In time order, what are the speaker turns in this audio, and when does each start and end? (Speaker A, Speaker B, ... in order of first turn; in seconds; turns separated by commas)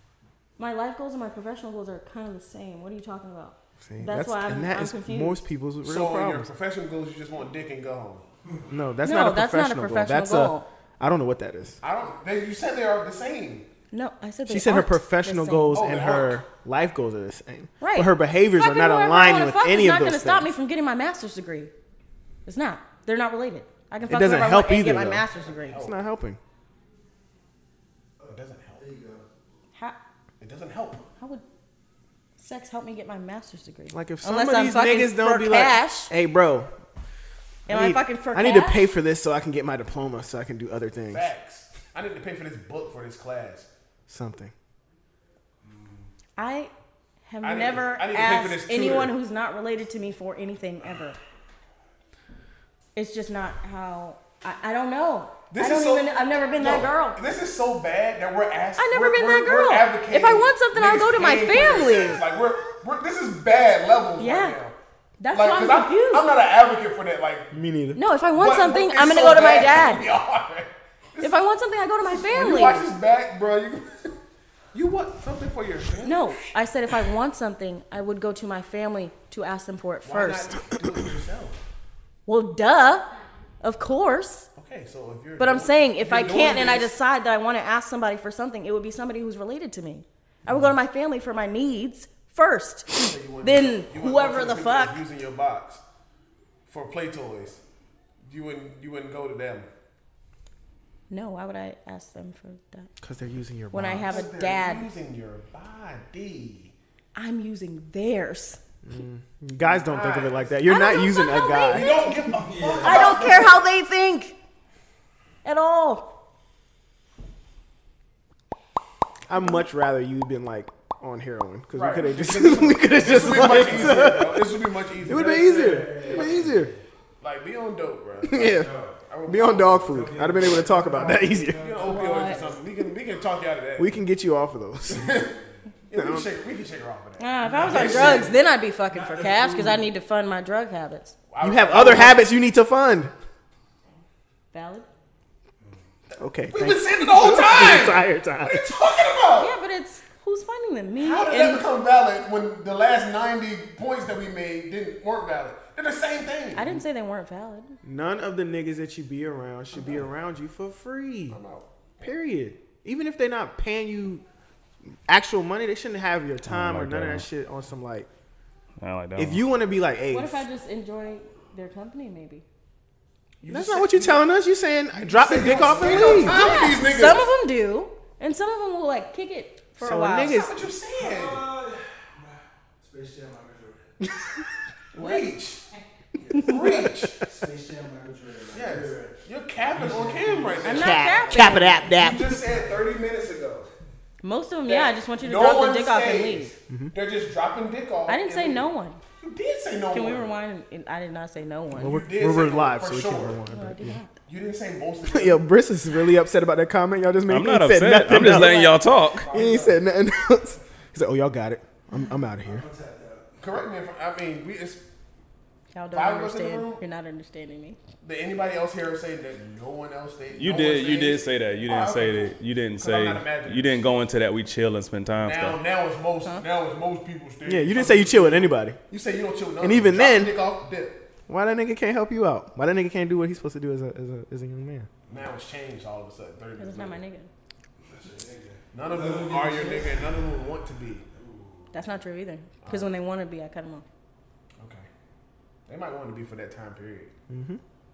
Speaker A: 0.6-5.5, Speaker B: 3.9-6.5, Speaker C: 5.8-8.2, Speaker B: 8.7-11.8, Speaker A: 9.0-10.7, Speaker C: 11.8-13.7, Speaker A: 13.9-15.8, Speaker B: 14.5-20.5, Speaker C: 15.7-16.4, Speaker A: 17.8-21.7, Speaker A: 22.5-25.9, Speaker B: 24.1-26.4, Speaker C: 25.3-26.0, Speaker D: 28.2-29.3, Speaker C: 28.3-28.9, Speaker C: 30.4-31.1, Speaker A: 32.4-36.1, Speaker B: 33.9-36.7, Speaker A: 37.7-38.9, Speaker B: 37.7-41.3, Speaker C: 41.1-43.7, Speaker B: 44.1-44.5, Speaker D: 45.6-46.1, Speaker A: 46.4-46.7, Speaker A: 47.3-51.2, Speaker C: 47.4-49.1, Speaker A: 53.0-57.2, Speaker C: 55.5-64.8, Speaker A: 58.8-62.2, Speaker A: 64.2-64.6, Speaker A: 65.2-66.3, Speaker C: 65.3-67.5, Speaker B: 67.5-68.0, Speaker A: 68.0-70.0, Speaker C: 68.3-71.3, Speaker A: 71.2-72.9, Speaker C: 72.1-74.2, Speaker C: 74.7-76.3, Speaker A: 76.0-80.7, Speaker C: 80.0-81.6, Speaker A: 82.3-83.1, Speaker A: 83.6-84.5, Speaker C: 84.6-87.0, Speaker A: 85.4-95.0, Speaker C: 92.9-95.8, Speaker C: 96.7-97.6, Speaker C: 98.2-99.7, Speaker A: 101.1-102.9, Speaker B: 103.0-104.1, Speaker A: 103.7-104.9, Speaker C: 104.1-106.7, Speaker A: 107.2-108.6, Speaker B: 108.8-111.9, Speaker C: 109.6-110.6, Speaker A: 110.7-112.2, Speaker C: 111.7-113.6, Speaker D: 112.4-113.1, Speaker A: 112.8-114.4, Speaker A: 115.4-116.1, Speaker B: 119.3-124.5, Speaker C: 121.7-126.5, Speaker D: 123.1-124.0, Speaker D: 125.0-126.8, Speaker B: 125.1-126.7, Speaker C: 127.2-130.5, Speaker B: 128.3-128.7, Speaker D: 128.4-129.0, Speaker B: 129.3-131.7, Speaker D: 129.8-132.6, Speaker C: 131.6-133.9, Speaker A: 131.9-132.4, Speaker B: 133.8-135.1, Speaker C: 134.9-138.4, Speaker B: 135.9-136.3, Speaker A: 137.2-141.2, Speaker D: 137.4-138.3, Speaker D: 138.9-139.9, Speaker C: 141.3-142.3, Speaker B: 141.4-143.1, Speaker A: 144.5-144.9, Speaker B: 146.2-148.8, Speaker C: 146.5-149.5, Speaker A: 149.4-151.7, Speaker C: 151.0-156.8, Speaker A: 156.5-157.8, Speaker B: 157.8-161.4, Speaker C: 161.3-162.1, Speaker B: 162.0-164.2, Speaker B: 165.1-168.1, Speaker E: 166.4-167.3, Speaker E: 168.8-169.4, Speaker B: 169.2-170.4, Speaker A: 170.1-172.4, Speaker C: 173.4-174.3, Speaker B: 173.5-176.4, Speaker C: 174.9-177.3, Speaker A: 176.2-180.4, Speaker B: 179.8-180.5, Speaker C: 180.2-181.4, Speaker D: 180.9-183.9, Speaker C: 184.9-185.7, Speaker A: 185.0-185.3, Speaker D: 186.2-192.9, Speaker C: 186.4-187.2, Speaker C: 188.5-193.7, Speaker A: 190.6-191.8, Speaker B: 190.7-192.4, Speaker A: 194.2-196.5, Speaker C: 194.7-198.7, Speaker A: 198.1-199.0, Speaker C: 199.2-200.4, Speaker A: 199.9-202.0, Speaker B: 201.8-204.0, Speaker C: 201.8-203.4, Speaker A: 203.5-204.1, Speaker C: 204.3-205.5, Speaker B: 205.1-208.8, Speaker E: 207.3-209.3, Speaker A: 208.1-208.7, Speaker C: 208.9-209.8, Speaker B: 209.3-212.7, Speaker D: 212.4-213.5, Speaker C: 213.4-214.8, Speaker A: 215.7-217.8, Speaker C: 215.9-216.8, Speaker C: 218.0-223.9, Speaker E: 220.3-225.6, Speaker C: 225.2-231.0, Speaker B: 227.5-228.8, Speaker B: 229.6-230.4, Speaker B: 231.3-234.9, Speaker C: 235.1-237.0, Speaker A: 236.6-237.3, Speaker D: 237.9-240.2, Speaker C: 238.7-241.1, Speaker D: 241.1-241.7, Speaker A: 241.7-243.8, Speaker C: 242.6-242.9, Speaker C: 244.6-244.9, Speaker C: 245.7-247.1, Speaker B: 247.3-247.6